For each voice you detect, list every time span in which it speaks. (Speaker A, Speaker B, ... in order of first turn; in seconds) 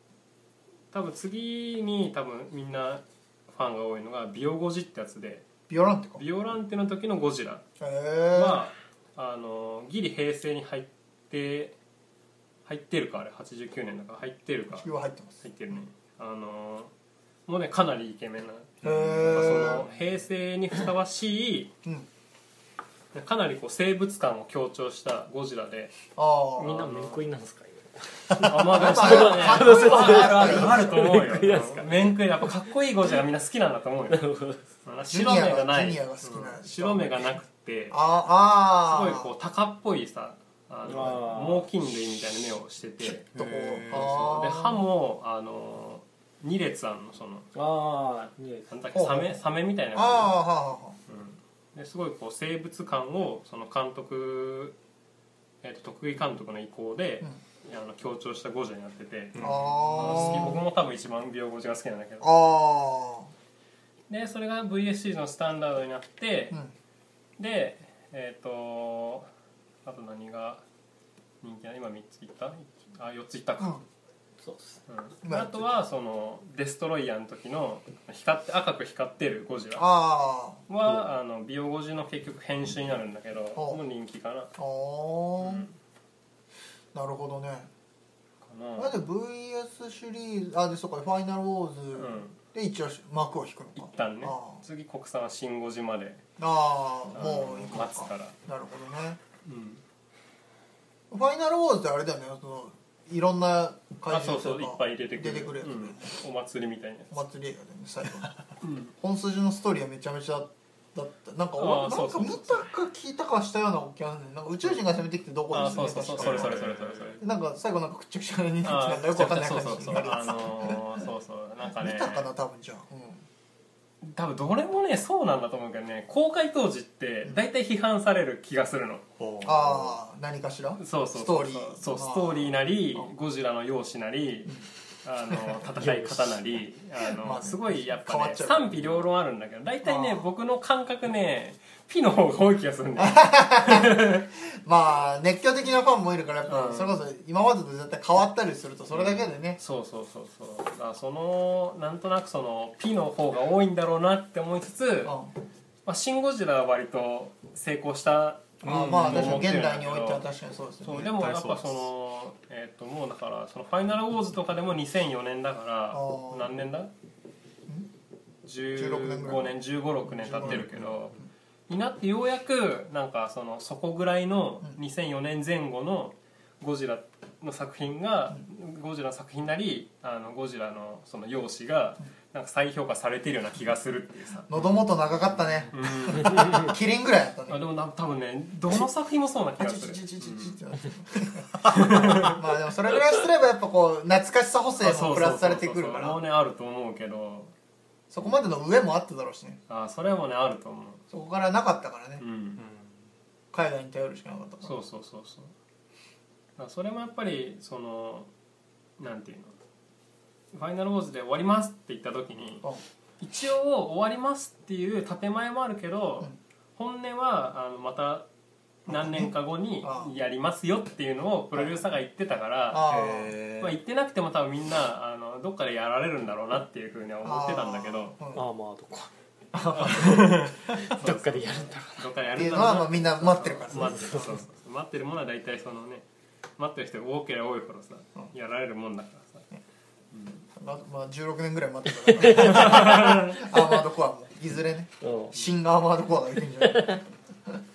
Speaker A: 0.9-5.5, 6.2-7.6, 8.3-11.8, 12.7-14.9, 15.4-16.9, 17.5-21.7, 23.1-25.9, 26.6-27.2, 28.4-34.2, 34.8-38.0, 38.9-43.2, 43.9-47.5, 48.7-50.3, 51.1-54.8, 55.6-62.3, 64.1-66.6, 67.4-69.3, 69.8-70.6, 71.4-73.8, 74.9-79.9, 80.7-84.5, 85.4-85.7, 88.4-89.0, 91.9-92.4, 93.8-96.2, 97.1-98.3, 99.4-99.8, 104.1-107.2, 108.6-108.9, 111.6-112.7, 115.5-117.2, 118.6-122.3, 124.0-129.0, 130.8-144.2, 146.5-147.0, 148.9-155.1, 155.8-160.2, 160.8-166.9, 168.4-184.5, 185.7-186.8, 187.5-190.6, 191.6-192.4, 194.8-197.5, 199.7-201.0, 202.2-202.6, 204.6-205.5, 206.6-208.3, 209.0-209.5, 210.5-212.7, 213.2-218.2, 218.9-228.1, 229.7-236.0, 236.6-239.5, 240.1-240.4, 242.3-243.5
Speaker B: 5.7-6.2, 7.8-8.6, 14.7-15.8, 18.8-19.9, 26.1-26.8, 28.4-31.2, 35.1-37.4, 37.9-39.3, 43.1-44.8, 48.9-49.4, 49.9-51.0, 59.4-60.6, 62.2-63.3, 75.2-75.8, 79.8-80.6, 83.5-83.8, 84.5-85.7, 86.9-87.7, 88.8-94.6, 96.4-99.2, 101.1-106.1, 107.1-108.4, 109.0-116.6, 117.2-121.0, 121.6-123.2, 129.4-133.1, 135.3-135.6, 137.0-138.6, 139.8-140.2, 143.0-149.6, 155.0-155.3, 158.6-161.1, 165.9-166.6, 168.8-169.5, 170.1-171.3, 184.5-187.6, 189.6-196.2, 198.1-199.6, 201.1-202.2, 203.5-204.8, 218.9-220.1, 222.7-223.3, 227.2-228.4, 229.5-230.5, 232.3-234.4, 240.5-247.6
Speaker C: 18.8-19.9, 43.3-44.5, 59.3-60.5, 116.2-117.2, 129.2-130.0, 158.6-159.5, 160.9-161.8, 170.4-170.9, 202.6-203.0, 222.9-223.8
Speaker D: 26.6-32.5, 34.1-34.6, 40.9-41.6, 47.5-48.7, 74.4-74.8, 135.8-136.4, 228.3-229.1, 230.7-232.1, 233.7-234.3, 242.2-243.1, 245.0-245.3, 246.6-246.9